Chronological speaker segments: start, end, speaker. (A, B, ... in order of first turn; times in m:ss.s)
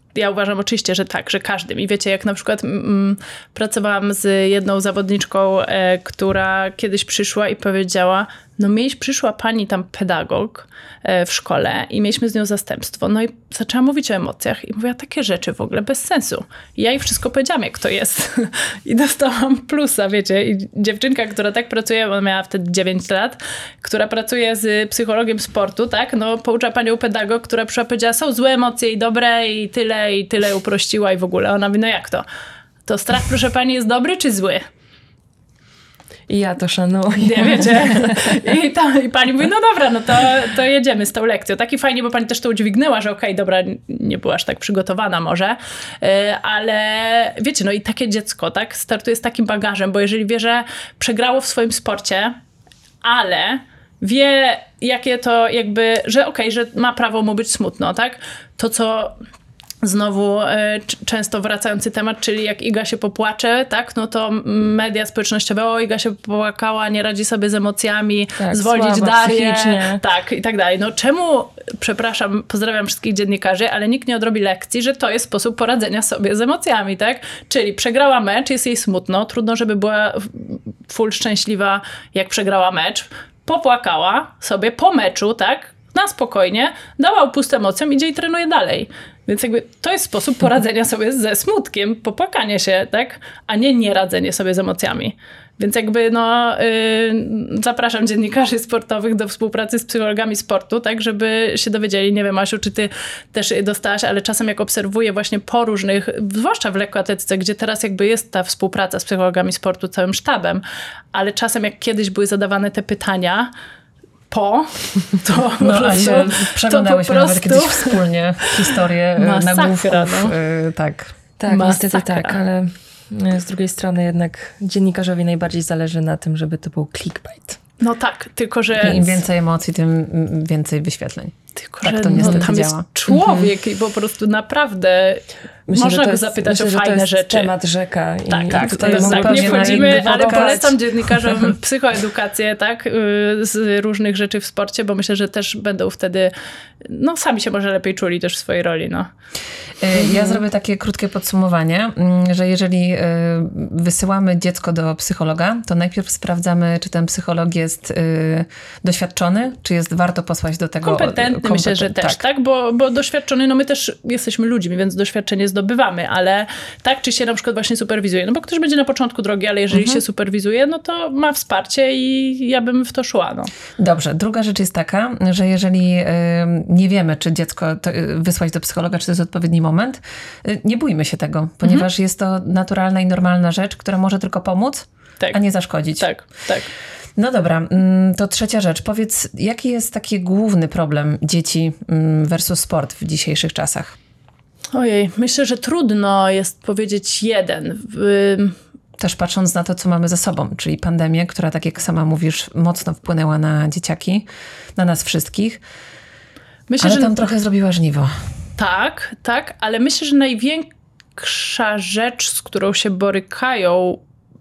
0:00.2-0:32.2 A
0:32.9-0:34.6 A
0:36.3-0:38.3 B
0:37.2-0:52.4 A
0:53.0-0:59.2 A
0:59.8-1:53.5 A
1:08.4-1:10.0 B
1:54.3-2:00.3 A
1:55.6-2:01.2 C
2:01.4-2:07.6 B
2:01.5-2:02.4 A
2:07.8-2:09.2 A
2:08.8-2:13.4 C
2:11.6-2:15.2 A
2:15.7-2:20.6 B
2:15.7-2:17.5 A
2:18.3-2:29.1 A
2:18.5-2:21.5 C
2:29.8-2:42.2 C
2:40.8-2:53.5 A
2:49.7-2:50.0 C
2:53.8-3:06.1 C
3:06.0-3:06.7 A
3:07.2-3:14.0 C
3:14.7-3:18.6 A
3:19.0-3:25.6 C
3:26.7-3:27.3 A
3:26.8-3:28.1 C
3:28.6-3:30.7 A
3:31.2-3:34.0 A